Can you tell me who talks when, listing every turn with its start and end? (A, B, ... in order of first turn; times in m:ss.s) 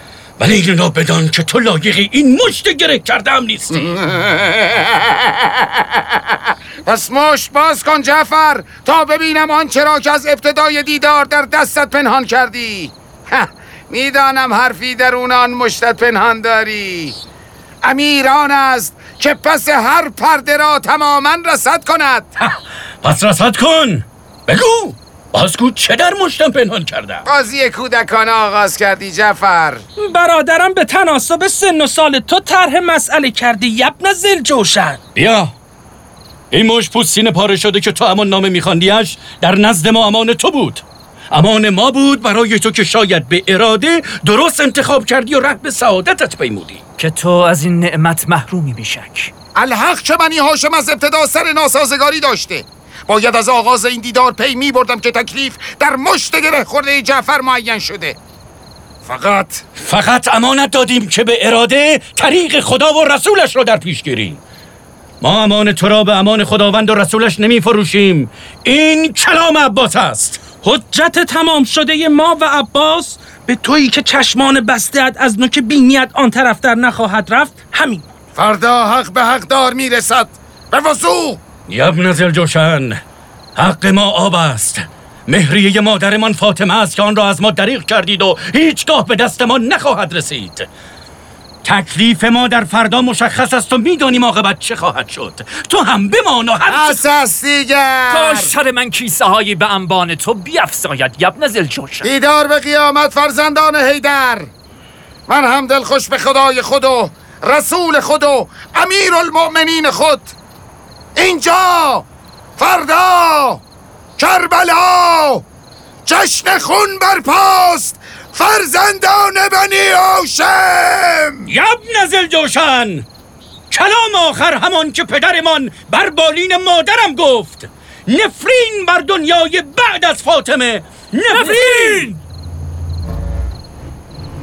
0:00.4-0:03.8 A
0:03.7-0:17.2 B
0:17.8-0:22.3 B
0:22.4-0:27.2 A
0:27.3-0:29.8 B
0:30.0-0:35.0 C
0:35.1-0:35.5 A
0:36.5-0:46.8 A
0:47.0-0:49.3 D
0:49.6-0:58.2 B
0:59.0-0:59.6 B
0:59.8-1:04.4 A
1:05.2-1:10.5 A
1:10.6-1:18.0 C
1:18.4-1:21.4 B
1:21.7-1:23.0 A
1:23.6-1:30.7 A
1:31.6-1:37.0 A
1:36.7-1:38.5 B
1:38.1-1:42.1 D
1:42.0-1:44.5 B
1:45.3-1:50.3 B
1:51.2-1:52.0 B
1:52.6-1:53.6 B
1:54.2-1:55.4 B
1:56.0-2:01.5 B
2:01.5-2:03.0 A
2:03.7-2:12.1 A
2:11.3-2:12.2 C